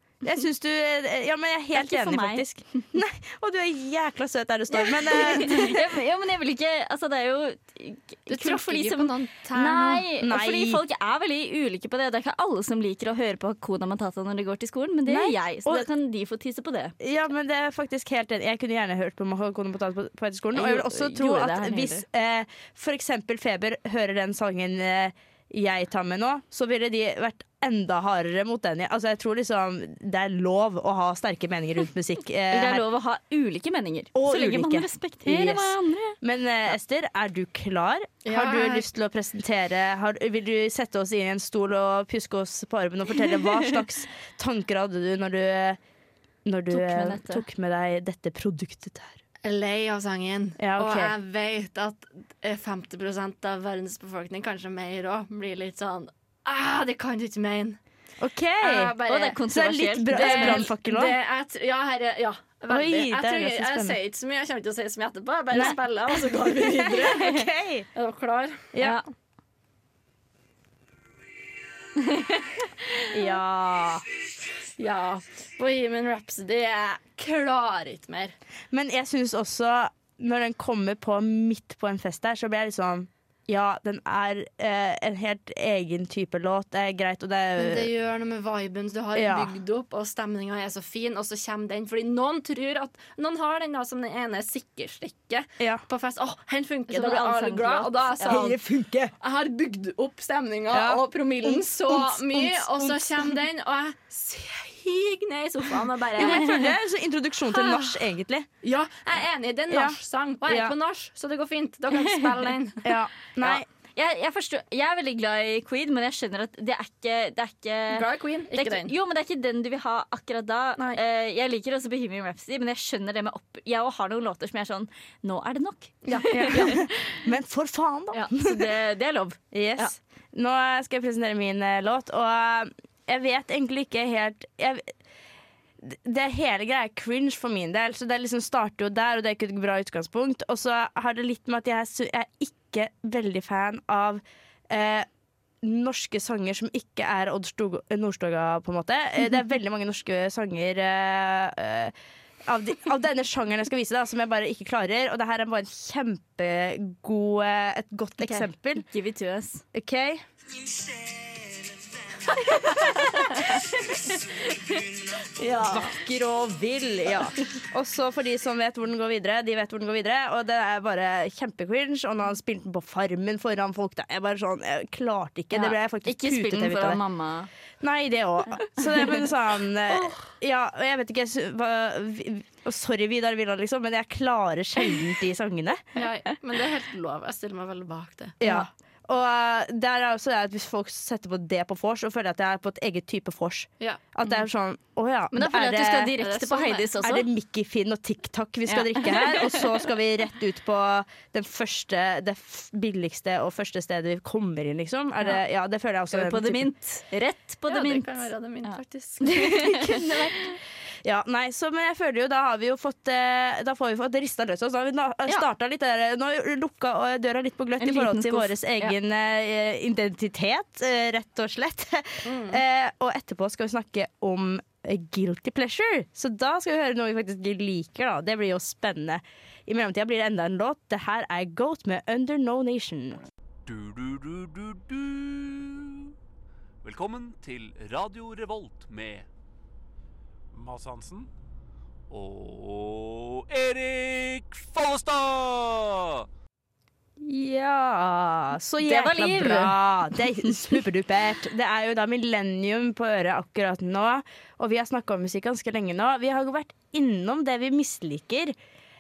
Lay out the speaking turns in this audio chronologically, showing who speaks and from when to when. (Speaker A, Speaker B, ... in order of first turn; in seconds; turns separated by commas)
Speaker A: 0.2-5.9, Speaker B: 1.8-2.8, Speaker B: 4.7-16.9, Speaker C: 8.3-10.0, Speaker A: 10.2-10.8, Speaker A: 15.1-15.9, Speaker A: 17.0-32.8, Speaker B: 20.5-22.0, Speaker B: 32.5-36.2, Speaker A: 34.1-45.8, Speaker C: 38.3-38.9, Speaker A: 46.5-49.2, Speaker B: 46.7-47.4, Speaker C: 49.4-57.8, Speaker A: 50.6-51.1, Speaker A: 58.2-58.9, Speaker C: 58.6-59.4, Speaker B: 59.1-60.7, Speaker A: 59.5-61.1, Speaker C: 60.1-68.7, Speaker A: 62.7-64.0, Speaker A: 65.5-67.9, Speaker A: 68.7-69.0, Speaker A: 73.1-74.0, Speaker C: 74.8-78.3, Speaker A: 78.7-87.9, Speaker C: 87.6-98.6, Speaker A: 89.2-89.5, Speaker B: 96.9-98.4, Speaker A: 98.3-99.1, Speaker C: 99.2-106.7, Speaker A: 100.7-103.4, Speaker A: 106.2-108.5, Speaker C: 107.6-107.9, Speaker C: 108.6-113.0, Speaker A: 109.7-110.7, Speaker B: 112.0-112.2, Speaker A: 112.8-113.7, Speaker B: 113.4-126.9, Speaker C: 117.9-118.9, Speaker C: 126.0-126.7, Speaker A: 126.3-128.6, Speaker B: 128.1-130.0, Speaker A: 129.5-134.9, Speaker A: 135.8-145.1, Speaker A: 145.6-151.9, Speaker A: 152.5-158.8, Speaker B: 158.2-159.6, Speaker A: 159.7-160.2, Speaker B: 162.6-163.8, Speaker B: 165.4-166.0, Speaker A: 165.6-177.0, Speaker B: 175.5-177.5, Speaker A: 177.8-185.8, Speaker B: 178.8-179.2, Speaker C: 186.0-188.4, Speaker A: 188.4-196.2, Speaker B: 195.3-197.2, Speaker C: 196.2-196.9, Speaker A: 197.0-206.7, Speaker B: 198.7-199.7, Speaker B: 206.1-210.1, Speaker C: 207.7-209.4, Speaker A: 209.3-210.5, Speaker A: 211.0-233.2, Speaker B: 217.8-218.9, Speaker C: 222.2-222.6, Speaker D: 233.7-236.1, Speaker D: 236.8-239.3, Speaker D: 240.5-241.3, Speaker D: 242.1-246.2, Speaker A: 247.2-258.6, Speaker B: 248.8-250.6